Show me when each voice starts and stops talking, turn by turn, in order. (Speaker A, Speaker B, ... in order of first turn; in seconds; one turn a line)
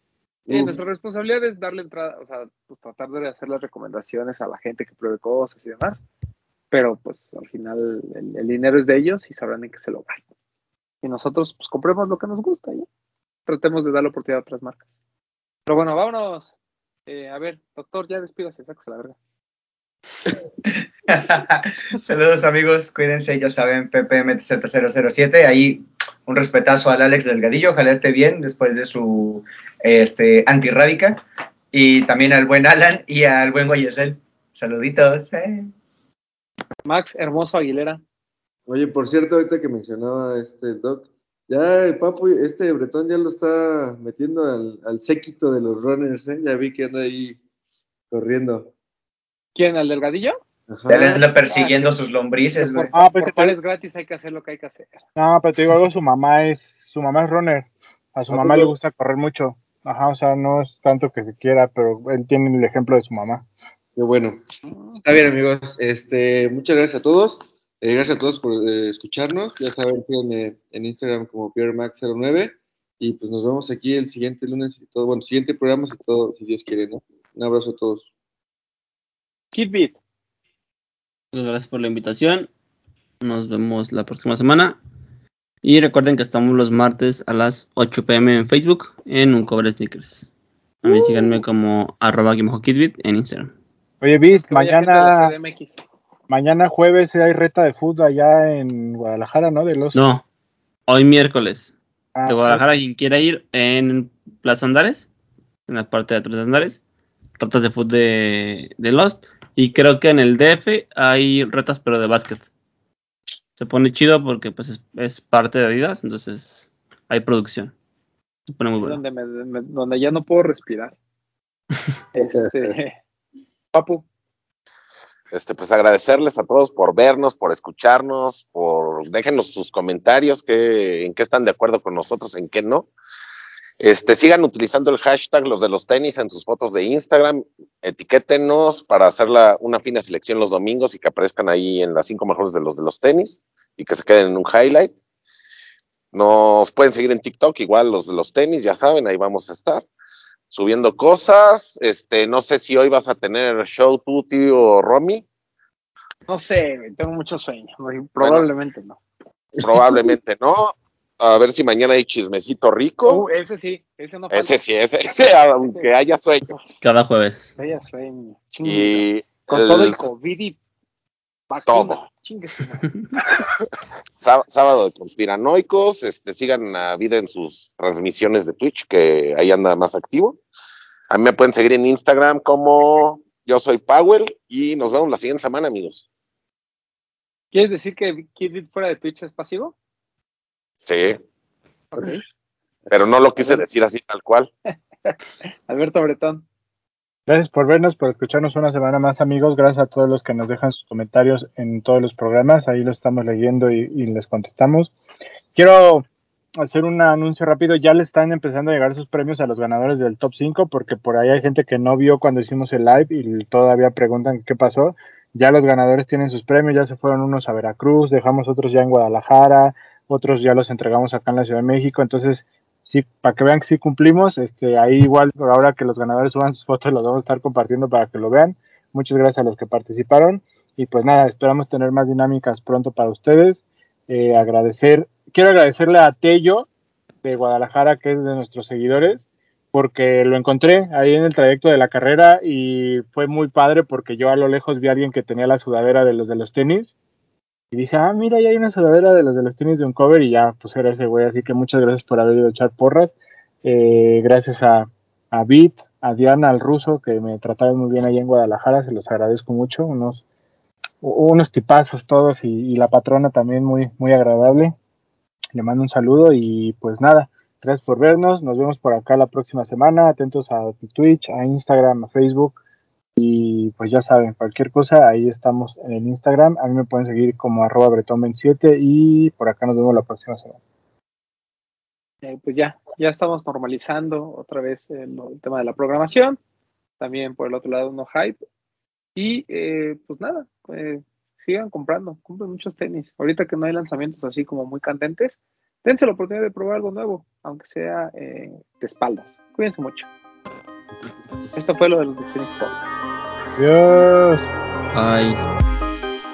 Speaker A: 0.5-0.8
Speaker B: 0.5-6.0
Speaker B: 6.7-10.2
Speaker B: 11.0-12.8
Speaker B: 13.4-14.8
Speaker B: 15.7-16.5
Speaker B: 17.1-19.1
Speaker C: 20.6-35.7
Speaker B: 36.8-38.0
Speaker A: 38.7-47.4
Speaker A: 48.1-48.7
Speaker B: 49.5-50.4
Speaker A: 50.7-51.2
Speaker C: 50.9-52.9
Speaker B: 51.5-52.0
Speaker B: 52.6-55.0
Speaker D: 52.9-53.5
Speaker D: 55.1-63.4
Speaker A: 58.3-58.7
Speaker A: 64.0-64.4
Speaker B: 64.6-65.0
Speaker A: 65.0-78.0
Speaker B: 79.5-80.0
Speaker E: 81.3-82.5
Speaker E: 83.2-84.8
Speaker E: 85.6-90.3
Speaker E: 90.8-93.5
Speaker A: 90.8-91.3
Speaker D: 94.0-95.3
Speaker B: 94.3-95.8
Speaker D: 96.3-100.0
Speaker E: 99.9-100.2
Speaker E: 100.9-101.7
Speaker D: 102.1-102.6
Speaker E: 102.3-105.1
Speaker E: 105.7-106.8
Speaker E: 107.4-112.5
Speaker E: 113.6-117.7
Speaker E: 118.5-119.0
Speaker B: 118.8-120.9
Speaker B: 122.1-122.9
Speaker A: 122.2-122.7
Speaker B: 123.7-124.0
Speaker F: 125.3-132.9
Speaker F: 133.8-145.0
Speaker F: 146.1-149.8
Speaker F: 150.5-155.2
Speaker B: 156.3-159.0
Speaker F: 158.2-158.4
Speaker F: 159.6-163.2
Speaker A: 159.6-160.0
Speaker B: 163.0-164.6
Speaker F: 164.3-166.4
Speaker B: 165.6-165.9
Speaker E: 166.8-167.5
Speaker B: 167.6-170.6
Speaker F: 168.6-170.1
Speaker B: 171.5-173.5
Speaker F: 171.7-172.0
Speaker F: 174.2-180.4
Speaker F: 181.1-186.0
Speaker B: 187.5-189.7
Speaker F: 190.8-191.2
Speaker B: 191.9-192.2
Speaker F: 192.9-194.5
Speaker B: 193.4-193.6
Speaker B: 195.0-196.4
Speaker D: 197.3-204.9
Speaker D: 205.5-206.1
Speaker D: 206.6-236.7
Speaker D: 237.2-246.9
Speaker D: 247.7-260.2
Speaker D: 261.0-264.8
Speaker D: 265.5-272.6
Speaker D: 273.1-280.6
Speaker B: 282.2-286.4
Speaker B: 287.0-288.4
Speaker B: 289.1-300.1
Speaker B: 301.5-302.8
Speaker D: 303.6-304.5
Speaker E: 304.9-305.4